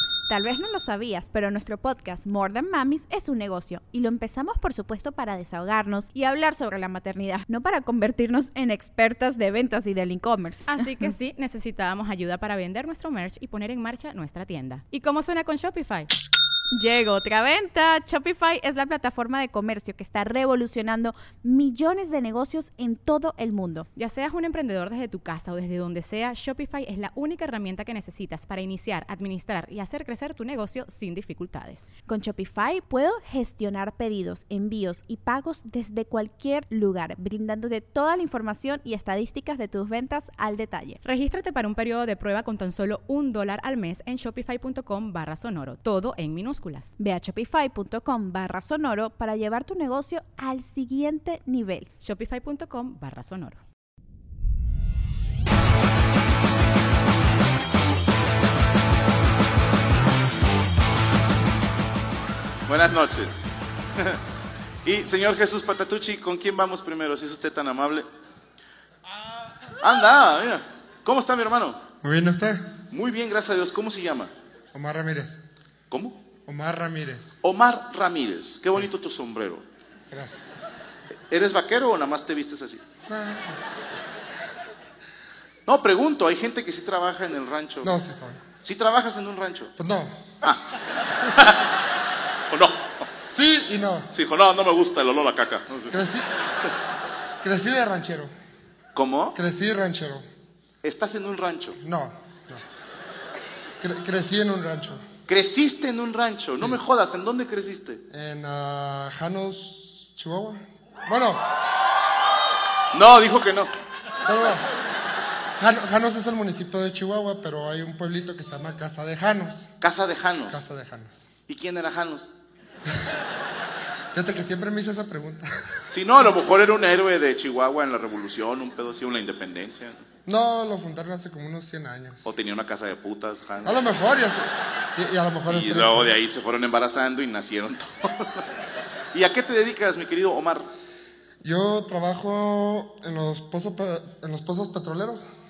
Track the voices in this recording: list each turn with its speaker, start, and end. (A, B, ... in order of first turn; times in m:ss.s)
0:00.3-0:11.1 A
0:10.7-0:16.1 B
0:16.7-0:23.8 A
0:23.9-0:31.9 B
0:32.1-0:41.0 A
0:41.0-0:46.9 B
0:47.0-0:51.9 A
0:52.0-0:53.6 B
1:02.7-1:03.4 C
1:04.8-1:08.1 C
1:09.8-1:11.8 C
1:12.0-1:12.7 D
1:12.9-1:14.3 C
1:14.7-1:15.4 D
1:15.9-1:16.2 C
1:16.4-1:17.4 D
1:17.4-1:19.6 C
1:20.1-1:20.5 D
1:21.3-1:22.8 C
1:23.1-1:23.7 D
1:25.6-1:27.9 C
1:27.8-1:28.4 D
1:28.6-1:29.7 C
1:29.8-1:30.3 D
1:31.3-1:31.7 C
1:32.5-1:33.1 C
1:33.3-1:34.1 D
1:34.1-1:36.0 C
1:35.9-1:36.3 D
1:37.4-1:38.3 D
1:38.9-1:39.4 C
1:39.3-1:40.2 D
1:40.8-1:41.8 C
1:41.8-1:42.6 D
1:43.8-1:45.0 D
1:45.3-1:48.0 C
1:46.5-1:46.8 D
1:48.1-1:51.4 D
1:52.9-1:53.7 C
1:54.2-1:54.6 D
1:55.6-1:59.7 D
1:59.8-2:00.6 C
2:00.5-2:01.2 D
2:01.5-2:02.3 C
2:04.1-2:05.7 D
2:05.9-2:10.0 C
2:10.2-2:12.3 D
2:12.2-2:13.9 C
2:13.6-2:16.2 D
2:15.5-2:18.5 C
2:19.1-2:20.7 C
2:21.4-2:25.2 D